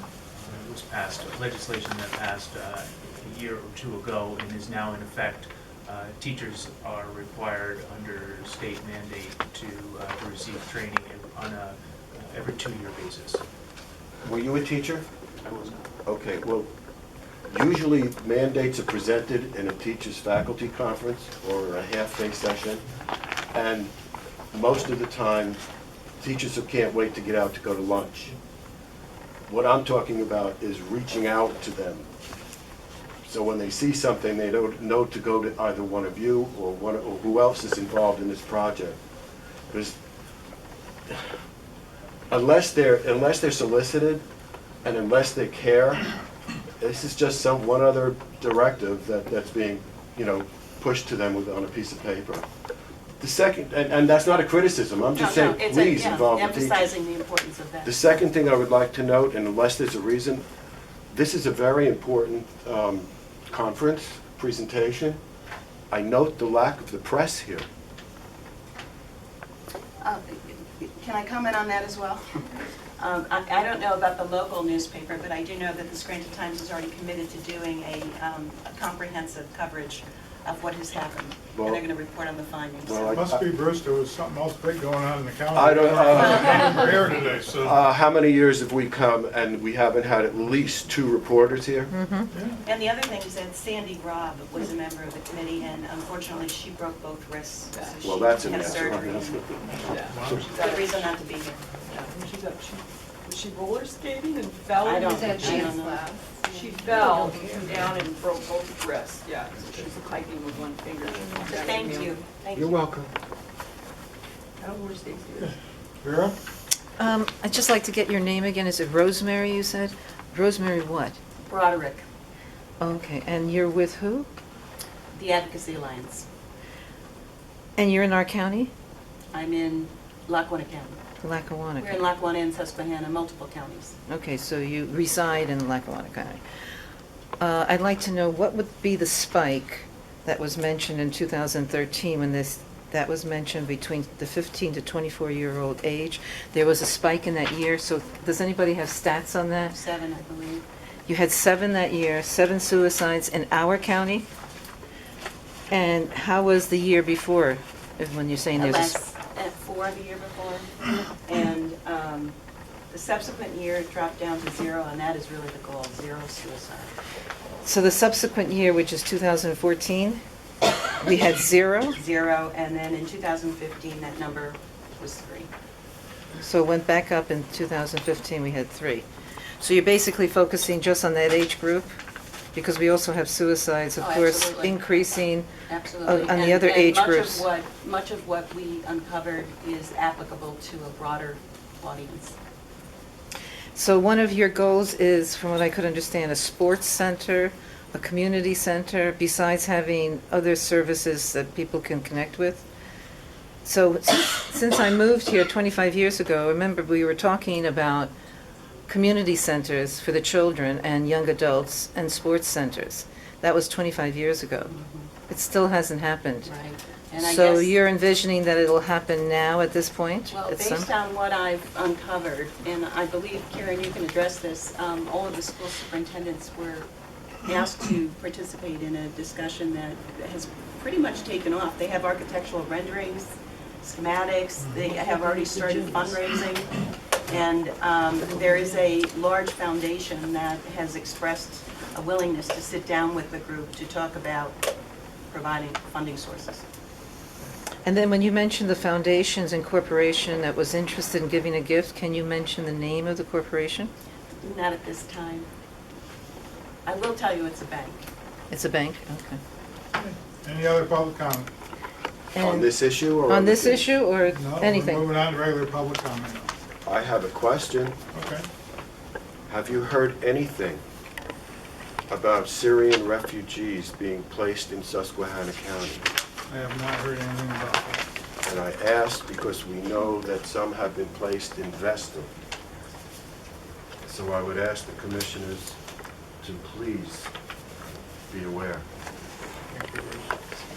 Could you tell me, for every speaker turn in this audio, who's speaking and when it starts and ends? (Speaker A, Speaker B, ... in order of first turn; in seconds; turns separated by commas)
Speaker A: 0.3-13.4, Speaker B: 14.2-15.1, Speaker A: 15.4-15.9, Speaker B: 16.1-16.7, Speaker B: 17.5-22.9, Speaker B: 23.5-23.9, Speaker B: 24.5-25.6, Speaker B: 26.2-28.4, Speaker B: 29.5-32.1, Speaker B: 33.3-39.0, Speaker B: 42.3-44.2, Speaker B: 44.8-46.1, Speaker B: 46.8-52.5, Speaker B: 53.2-56.9, Speaker C: 55.1-58.1, Speaker B: 57.8-60.5, Speaker B: 61.1-65.2, Speaker B: 65.9-67.7, Speaker C: 70.0-83.2, Speaker B: 81.5-81.8, Speaker B: 82.8-83.5, Speaker D: 83.1-87.8, Speaker B: 85.5-91.9, Speaker E: 91.9-92.3, Speaker D: 92.3-92.6, Speaker C: 92.6-99.5, Speaker F: 97.7-98.0, Speaker B: 98.0-99.6, Speaker F: 99.4-101.1, Speaker D: 99.7-100.5, Speaker C: 100.3-101.6, Speaker F: 101.9-112.2, Speaker C: 104.8-107.4, Speaker D: 105.3-105.7, Speaker C: 111.4-112.8, Speaker B: 112.5-113.1, Speaker F: 114.6-115.5, Speaker D: 115.4-116.4, Speaker E: 117.0-121.2, Speaker C: 121.5-122.0, Speaker E: 122.8-124.3, Speaker C: 125.1-126.3, Speaker E: 127.8-128.7, Speaker C: 129.3-131.0, Speaker E: 131.2-132.1, Speaker C: 131.8-134.0, Speaker E: 134.1-136.4, Speaker E: 137.4-149.8, Speaker C: 149.7-150.7, Speaker E: 151.1-154.3, Speaker E: 155.7-159.0, Speaker C: 158.6-162.4, Speaker C: 162.9-166.9, Speaker E: 167.6-170.2, Speaker E: 171.0-172.0, Speaker C: 171.9-175.5, Speaker E: 176.4-179.1, Speaker E: 179.6-181.9, Speaker E: 182.6-185.5, Speaker C: 184.0-185.0, Speaker C: 185.7-192.4, Speaker E: 186.1-187.4, Speaker E: 193.8-202.7, Speaker E: 203.6-208.1, Speaker E: 208.9-214.7, Speaker C: 214.7-215.1, Speaker E: 215.3-216.5, Speaker C: 216.4-217.7, Speaker E: 217.2-220.9, Speaker C: 220.3-226.9, Speaker C: 227.4-244.6, Speaker D: 234.6-234.9, Speaker C: 245.3-246.7, Speaker E: 247.8-253.9, Speaker C: 254.4-255.5, Speaker C: 256.9-258.1, Speaker E: 258.5-259.4, Speaker D: 259.9-261.5, Speaker E: 262.4-265.2, Speaker B: 262.4-263.9, Speaker D: 264.3-266.5, Speaker B: 266.9-268.0, Speaker D: 268.1-268.5, Speaker B: 269.5-270.8, Speaker B: 272.1-276.1, Speaker D: 276.5-278.0, Speaker B: 278.4-282.3, Speaker B: 284.1-285.8, Speaker B: 286.4-287.3, Speaker B: 288.3-288.9, Speaker D: 289.7-290.4